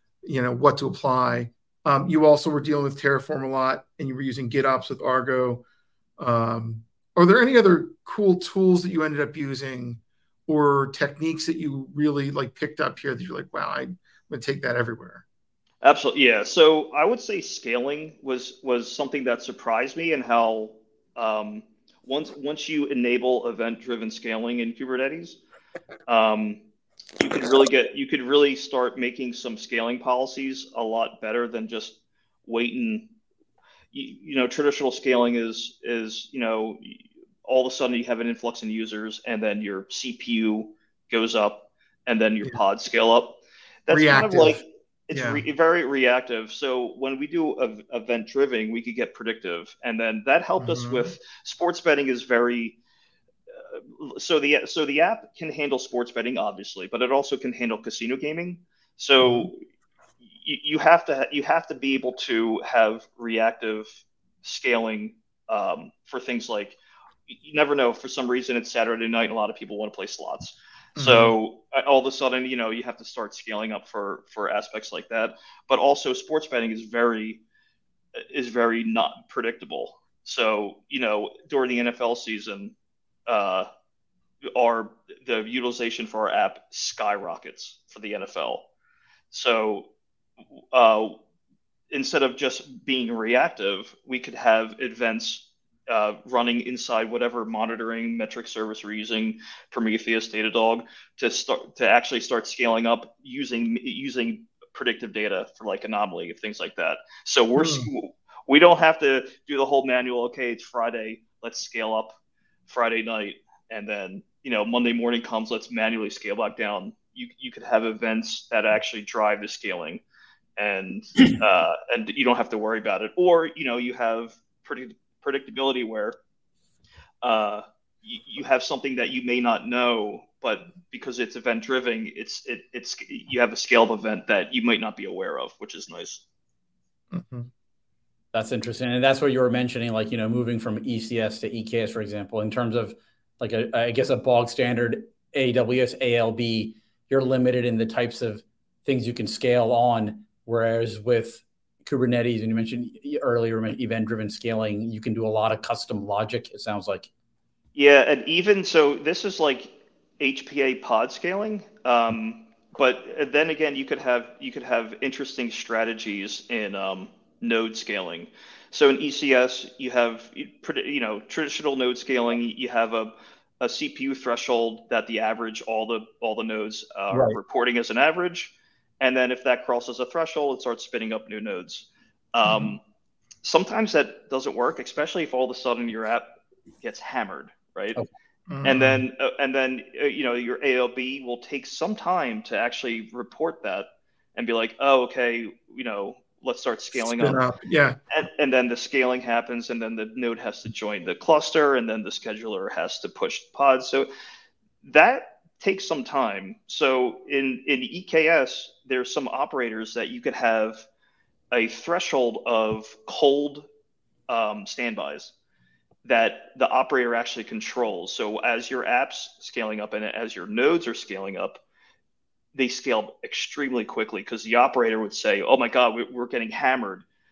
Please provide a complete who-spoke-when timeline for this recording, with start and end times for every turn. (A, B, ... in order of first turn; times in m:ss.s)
0:00.2-0:05.6 A
0:06.2-0:15.2 A
0:15.8-0:25.4 B
0:26.1-0:26.6 B
0:27.2-0:33.1 B
0:33.9-0:52.8 B
0:43.9-0:44.6 A
0:45.1-0:45.4 A
0:50.6-0:51.1 A
0:53.7-0:59.6 B
0:59.2-0:59.5 A
1:00.4-1:17.4 B
1:11.0-1:11.4 A
1:18.2-1:22.7 B
1:23.3-1:23.7 B
1:24.4-1:28.7 B
1:29.3-1:29.9 B
1:30.7-1:31.2 B
1:31.9-1:52.2 B
1:47.6-1:47.9 A
1:52.7-2:00.0 B
2:00.6-2:06.2 B
2:07.2-2:16.2 B
2:17.1-2:17.5 A
2:18.3-2:37.1 C
2:37.8-3:02.8 B
2:57.1-2:57.4 C
3:02.4-3:02.8 A
3:03.4-3:08.0 B
3:08.5-3:09.0 A
3:08.6-3:17.4 B
3:17.0-3:18.0 A
3:18.1-3:24.1 B
3:24.8-3:30.9 B
3:31.5-3:33.7 B
3:34.3-3:35.3 B
3:36.0-3:41.6 B
3:42.5-3:47.0 B